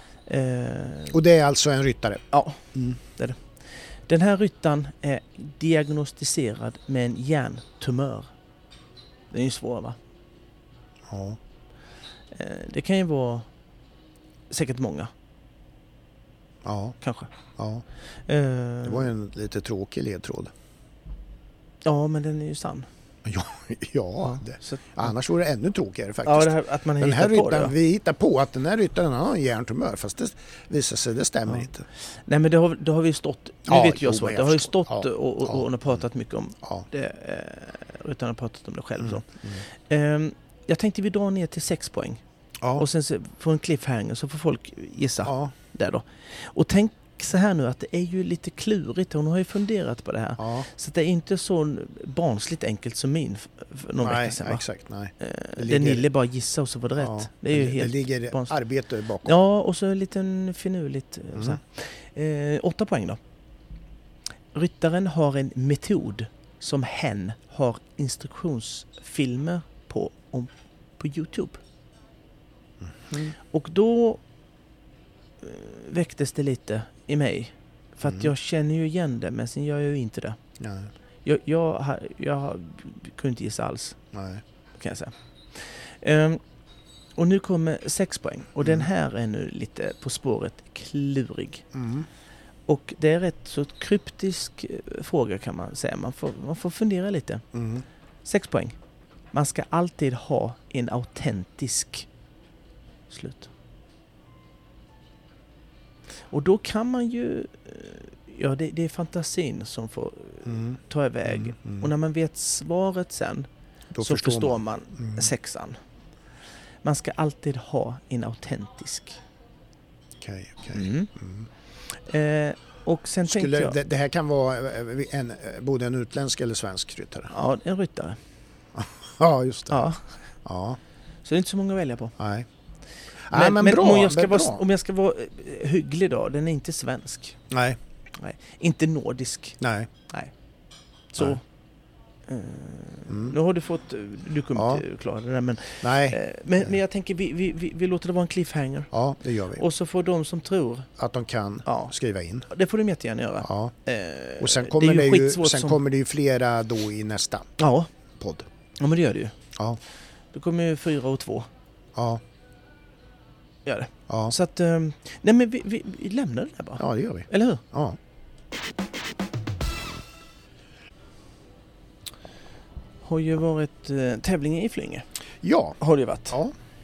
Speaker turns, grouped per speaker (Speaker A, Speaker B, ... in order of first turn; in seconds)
Speaker A: 0.2-1.2, 2.3-3.4, 4.1-8.3, 9.3-10.0, 12.3-13.5, 14.5-15.1, 17.0-17.3, 18.2-19.1, 21.8-22.9, 24.2-24.9, 26.2-27.7, 31.5-42.2, 42.8-54.6, 55.2-58.5, 59.2-63.2, 64.5-71.6, 73.5-74.2, 75.4-80.4, 81.2-84.0, 84.8-86.4, 87.2-91.7, 92.7-97.4, 98.2-98.8, 99.3-102.1, 103.1-103.5, 106.3-113.5, 114.0-115.8, 116.8-119.2, 120.7-121.1, 122.0-123.7, 127.3-128.2, 129.7-130.0, 131.2-132.1, 133.3-137.4, 138.2-140.3, 141.1-141.4, 142.3-148.9, 149.6-150.9, 151.7-151.9, 152.5-155.8, 157.6-157.9, 158.8-159.3, 160.3-161.5, 163.7-167.6, 173.0-175.0, 175.8-176.4
Speaker B: 1.1-3.0, 11.1-11.4, 16.6-16.9, 17.6-17.8, 18.8-20.5, 23.2-31.8, 33.7-36.0, 39.0-39.6, 45.2-45.5, 50.4-50.7, 54.0-56.1, 57.0-59.3, 72.8-73.3, 78.0-78.3, 80.6-80.9, 84.1-84.4, 91.7-92.1, 97.5-97.8, 110.5-111.9, 113.9-115.3, 120.2-121.5, 123.3-127.3, 128.8-129.9, 130.4-130.8, 132.2-132.4, 133.3-134.6, 137.5-137.8, 139.6-139.9, 143.1-143.3, 144.5-144.8, 145.8-146.7, 148.9-149.6, 151.0-152.5, 153.4-153.7, 154.4-157.5, 158.2-158.4, 164.1-164.3, 166.8-168.0, 175.4-175.8